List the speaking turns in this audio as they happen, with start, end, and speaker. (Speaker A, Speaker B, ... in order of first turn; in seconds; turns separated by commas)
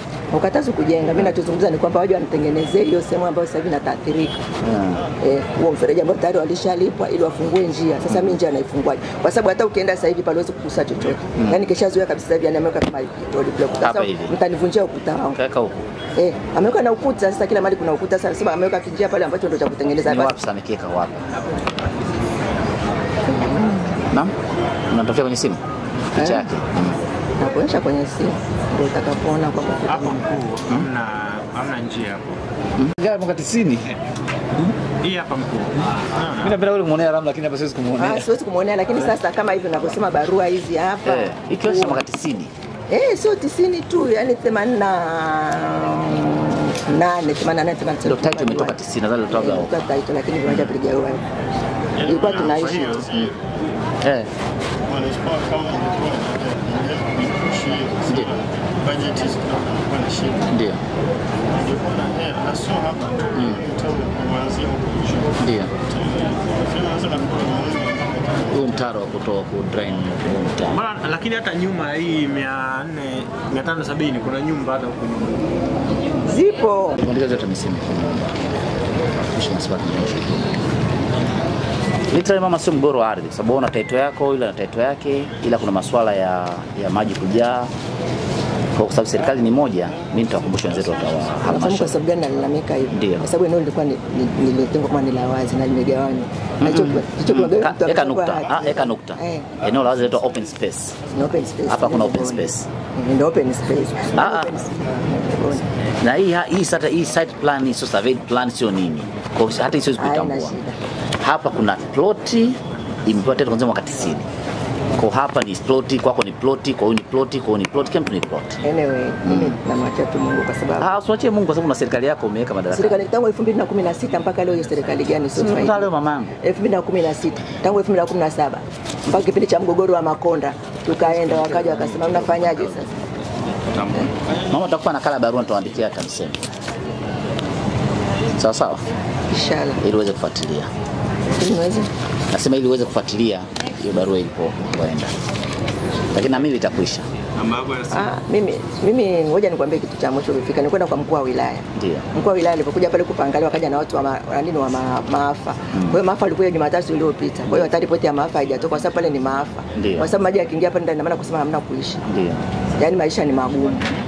Speaker A: 0.3-4.4, Speaker B: 4.6-5.1, Speaker A: 5.2-15.4, Speaker B: 8.1-8.3, Speaker B: 11.4-11.7, Speaker B: 13.8-14.3, Speaker B: 15.3-15.9, Speaker A: 16.2-20.4, Speaker B: 20.1-21.3, Speaker A: 23.3-24.0, Speaker B: 24.9-25.6, Speaker B: 26.1-27.0, Speaker A: 26.2-26.5, Speaker A: 27.4-30.2, Speaker C: 29.9-32.4, Speaker B: 32.8-33.9, Speaker C: 35.0-36.6, Speaker B: 36.4-38.3, Speaker A: 38.0-42.0, Speaker B: 41.0-42.5, Speaker A: 42.9-48.8, Speaker B: 48.0-49.7, Speaker A: 49.3-51.2, Speaker B: 50.5-50.7, Speaker D: 52.0-53.4, Speaker A: 52.0-53.0, Speaker C: 52.3-53.1, Speaker B: 54.0-54.3, Speaker D: 54.8-60.5, Speaker B: 60.5-60.8, Speaker D: 61.5-68.7, Speaker B: 63.4-63.6, Speaker B: 65.4-65.7, Speaker B: 68.5-70.8, Speaker C: 70.7-75.5, Speaker A: 76.3-77.0, Speaker B: 77.0-78.3, Speaker B: 79.2-80.6, Speaker B: 82.1-87.7, Speaker B: 88.8-92.0, Speaker A: 91.4-99.5, Speaker B: 92.9-93.3, Speaker B: 96.6-101.0, Speaker A: 101.1-105.7, Speaker B: 101.7-102.7, Speaker B: 104.1-104.6, Speaker B: 106.0-110.5, Speaker A: 110.0-110.8, Speaker B: 111.2-114.3, Speaker B: 115.0-118.6, Speaker A: 118.6-120.9, Speaker B: 119.2-119.6, Speaker B: 120.8-123.1, Speaker A: 122.7-132.9, Speaker B: 125.3-126.3, Speaker B: 130.9-132.9, Speaker B: 133.7-136.4, Speaker B: 138.4-138.8, Speaker A: 139.3-139.8, Speaker B: 139.8-140.7, Speaker A: 141.4-141.9, Speaker B: 142.3-145.1, Speaker B: 146.1-147.1, Speaker A: 147.9-162.0, Speaker B: 151.8-152.1, Speaker B: 155.7-156.0, Speaker B: 159.8-160.1, Speaker B: 162.1-162.4, Speaker A: 162.8-163.9